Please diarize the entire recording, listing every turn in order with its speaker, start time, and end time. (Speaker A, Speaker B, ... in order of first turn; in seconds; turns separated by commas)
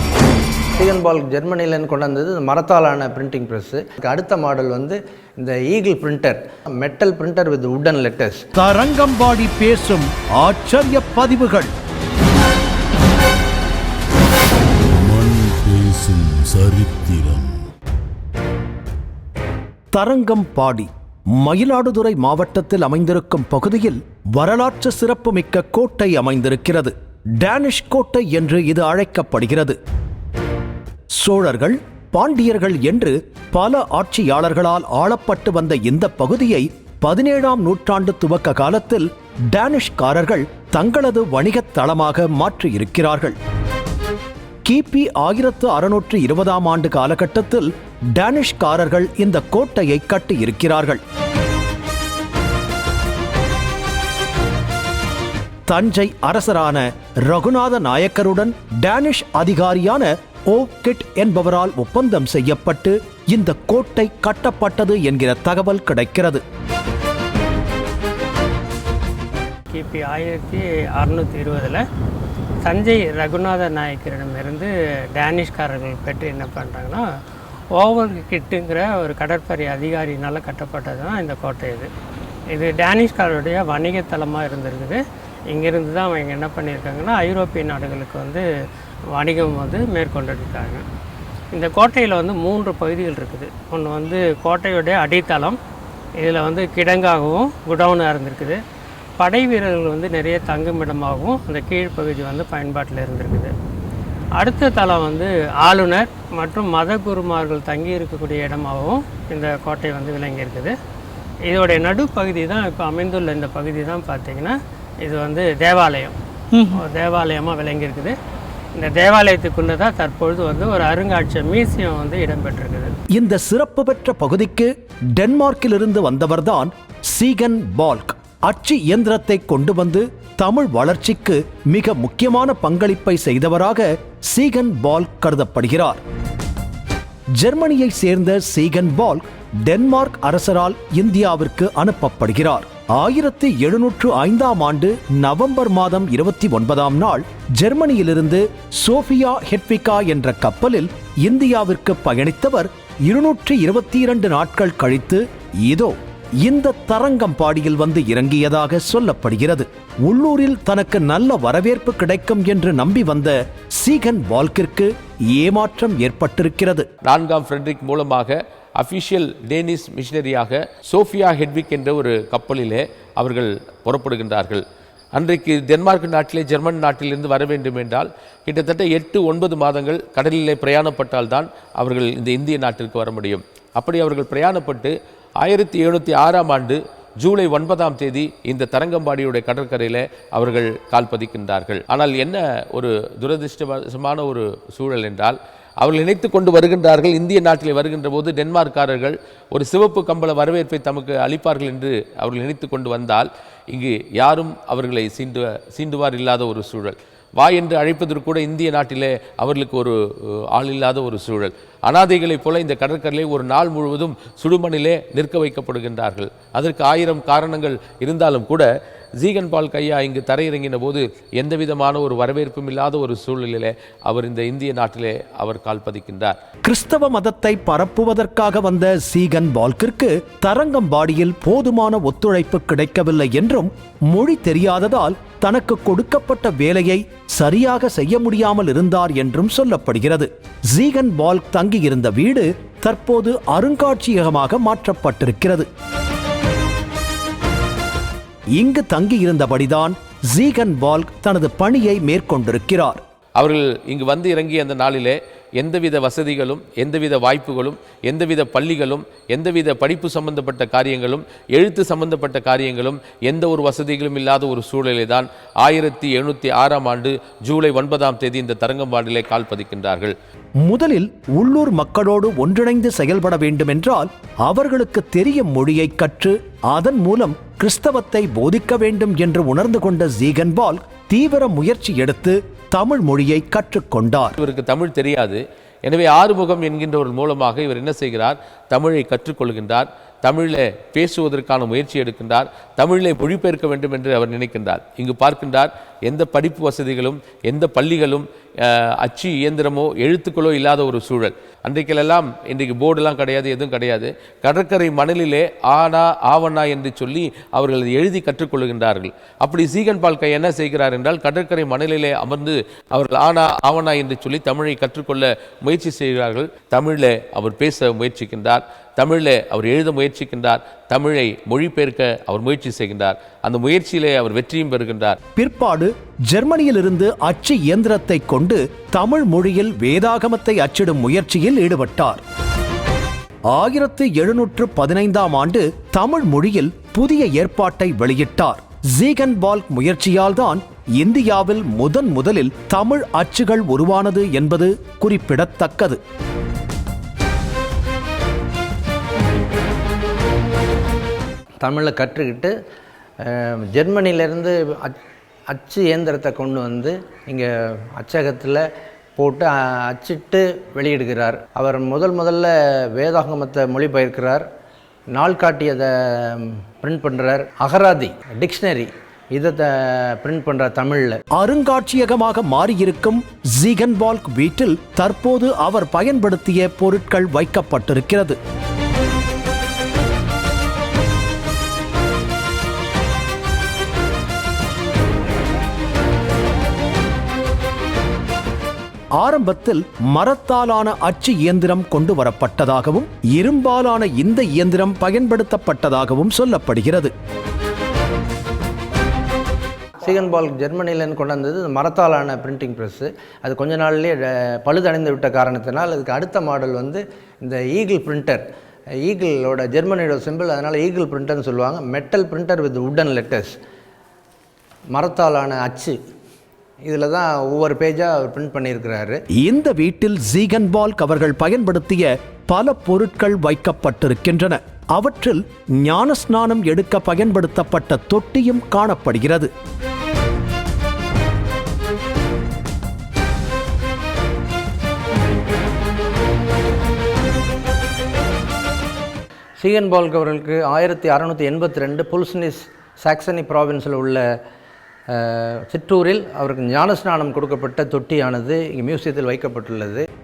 Speaker A: 0.8-8.4, Speaker B: 8.6-11.7, Speaker C: 14.9-17.6, Speaker B: 19.9-29.8, Speaker B: 31.2-43.4, Speaker B: 44.6-51.0, Speaker B: 55.7-66.4, Speaker D: 69.7-71.8, Speaker D: 72.6-77.0, Speaker D: 77.7-81.9, Speaker D: 82.5-88.5, Speaker D: 89.1-90.8, Speaker D: 91.5-95.6, Speaker D: 96.2-98.6, Speaker D: 99.2-103.5, Speaker D: 104.4-110.7, Speaker D: 111.5-118.2, Speaker D: 118.7-122.9, Speaker B: 123.1-136.0, Speaker B: 137.4-166.9, Speaker E: 167.0-174.6, Speaker E: 175.1-218.7, Speaker E: 219.2-226.4, Speaker B: 226.7-245.7, Speaker B: 248.6-253.0, Speaker E: 253.3-270.1, Speaker B: 270.6-284.4, Speaker E: 284.4-325.2, Speaker B: 325.4-332.2, Speaker B: 333.5-346.0, Speaker A: 351.6-352.5, Speaker A: 353.2-354.9, Speaker A: 355.5-358.6, Speaker A: 359.2-364.4, Speaker A: 365.1-371.2, Speaker B: 371.4-378.4, Speaker B: 389.2-397.1, Speaker A: 400.0-408.4, Speaker A: 409.0-413.5, Speaker A: 414.9-415.9, Speaker A: 416.8-419.2, Speaker B: 419.4-429.5, Speaker A: 439.6-444.2, Speaker A: 445.1-450.0